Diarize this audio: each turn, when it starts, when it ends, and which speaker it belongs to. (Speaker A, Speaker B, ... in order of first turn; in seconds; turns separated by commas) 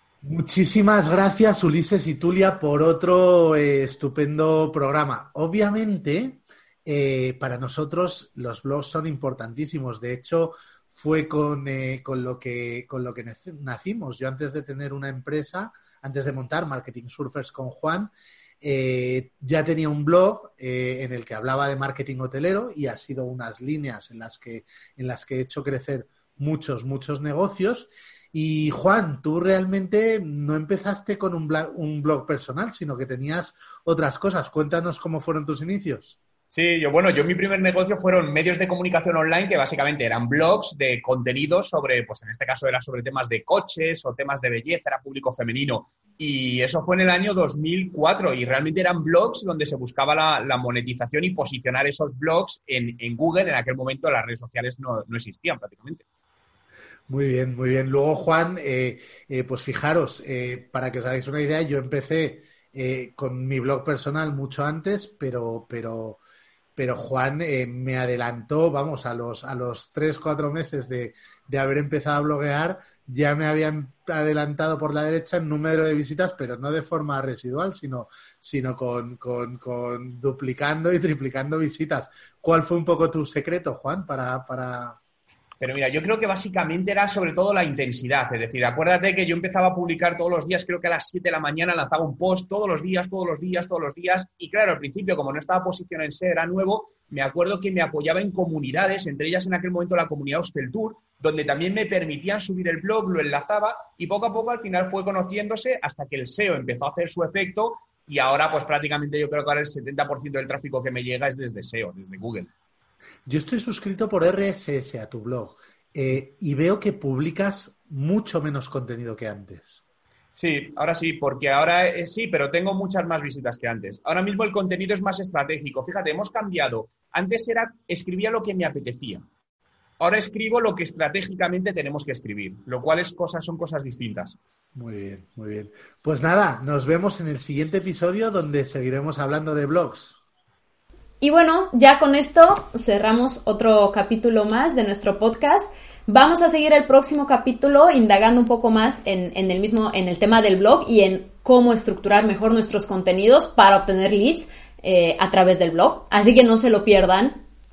Speaker A: 0.2-36.1, Speaker B: 36.5-56.0, Speaker A: 57.1-66.2, Speaker A: 66.8-85.0, Speaker B: 85.6-112.5, Speaker A: 113.2-119.8, Speaker B: 120.3-129.2, Speaker B: 130.0-134.3, Speaker A: 134.7-140.2, Speaker C: 141.2-157.4